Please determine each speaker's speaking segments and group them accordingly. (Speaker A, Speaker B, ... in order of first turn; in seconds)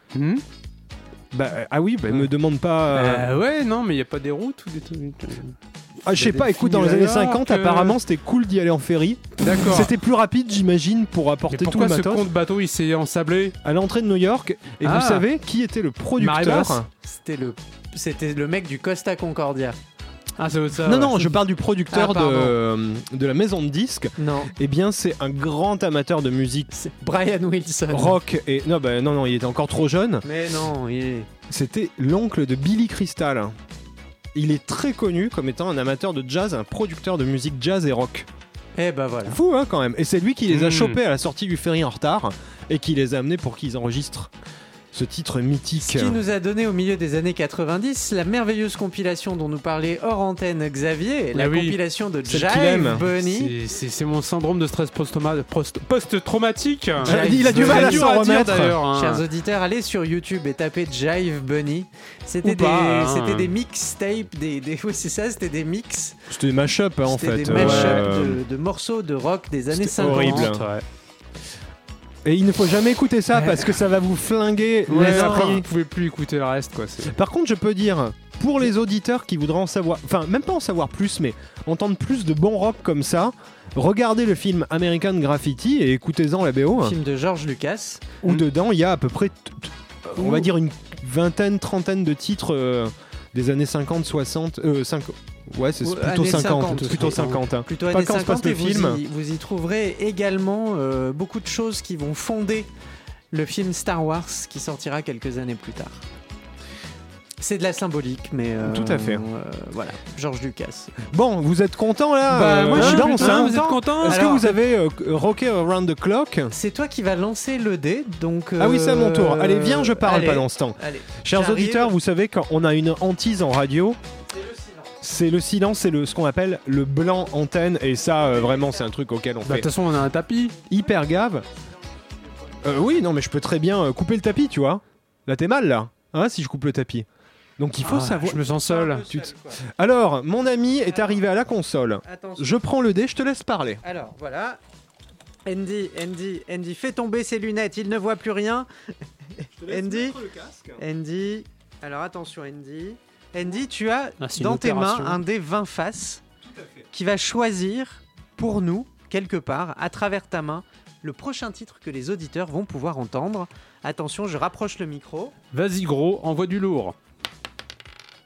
Speaker A: 0.1-0.4, 2.9-5.5, 6.1-8.0, 9.4-9.9, 11.5-13.6, 14.8-15.2, 16.2-16.8, 20.4-21.3, 40.5-41.0, 51.3-51.8, 53.2-59.2, 62.4-63.5, 67.5-68.1, 70.0-70.8, 73.3-73.7, 74.9-77.1, 96.8-97.4, 112.3-114.5, 129.4-130.6, 137.8-139.1, 154.2-155.2, 165.5-166.9
Speaker B: 1.3-3.3, 6.0-12.3, 13.6-16.9, 20.8-26.7, 27.9-30.2, 31.5-33.5, 34.3-38.3, 39.2-44.3, 44.9-46.2, 52.3-53.0, 57.0-58.8, 66.3-68.4, 69.8-70.7, 72.2-75.7, 77.1-87.0, 88.2-99.0, 108.6-109.2, 111.0-116.5, 118.6-124.0, 125.0-129.7, 130.7-131.4, 132.6-137.1, 137.6-143.8, 149.5-150.8, 156.4-156.9
Speaker C: 17.0-19.8, 21.9-22.5, 24.2-24.5, 26.7-28.2, 30.2-31.3, 38.8-39.4, 45.8-53.5, 57.0-58.1, 58.9-66.2, 67.0-70.5, 86.8-88.1, 95.8-102.7, 103.3-106.0, 107.4-110.9, 112.4-114.5, 116.5-121.9, 124.3-124.9, 128.2-128.8, 138.6-139.6, 140.9-141.2, 142.0-142.6, 143.8-144.6, 145.4-148.7, 149.7-150.2, 150.8-156.2, 156.9-165.3